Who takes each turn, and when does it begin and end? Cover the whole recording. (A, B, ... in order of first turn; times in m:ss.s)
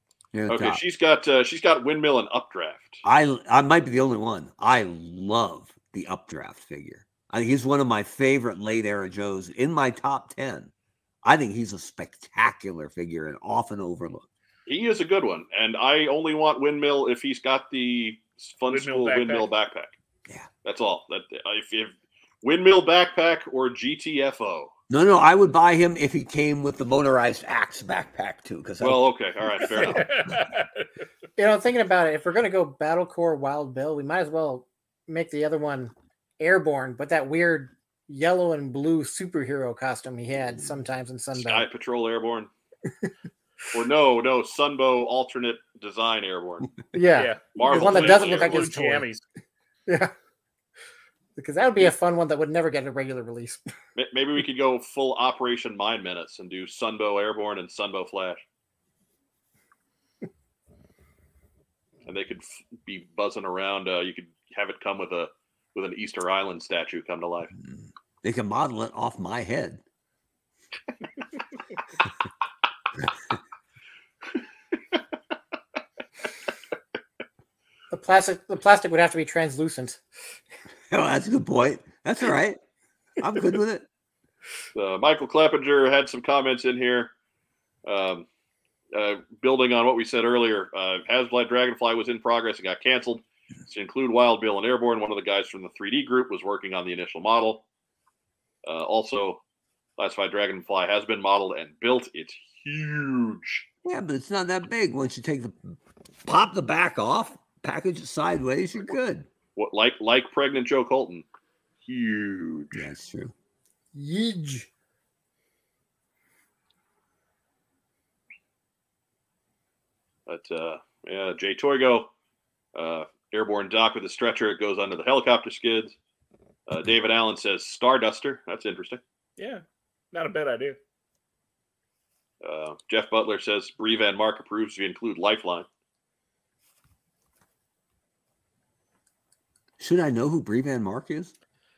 0:00.3-0:00.8 A
0:00.5-0:03.0 B
0:03.0-0:10.7 A
0:11.2-0:14.3 A
0:14.6-0:19.9 B
0:18.7-0:19.5 C
0:20.6-0:24.7 B
0:24.9-0:29.0 A
0:28.8-0:30.1 B
0:29.9-0:30.7 C
0:31.4-0:41.7 D
0:41.3-0:42.5 B
0:43.7-0:46.7 B
0:46.9-0:49.1 D
0:47.1-0:49.2 C
0:47.5-0:48.7 B
0:49.9-0:50.1 D
0:51.4-0:53.6 D
0:54.0-0:58.4 B
1:02.0-1:07.5 B
1:08.2-1:09.8 A
1:17.9-1:20.0 D
1:20.9-1:22.6 A
1:23.2-1:23.9 A
1:24.7-1:27.1 B
1:27.8-1:28.2 B
1:28.9-1:37.6 B
1:38.6-1:39.4 B
1:40.0-1:43.6 B
1:43.8-1:49.3 A
1:49.6-1:51.2 B
1:51.8-1:52.8 B
1:52.7-1:53.3 A
1:53.9-1:54.7 D
2:00.3-2:02.1 B
2:02.7-2:06.0 B
2:06.7-2:09.0 B
2:09.4-2:10.8 C
2:12.4-2:15.7 B
2:19.8-2:21.3 A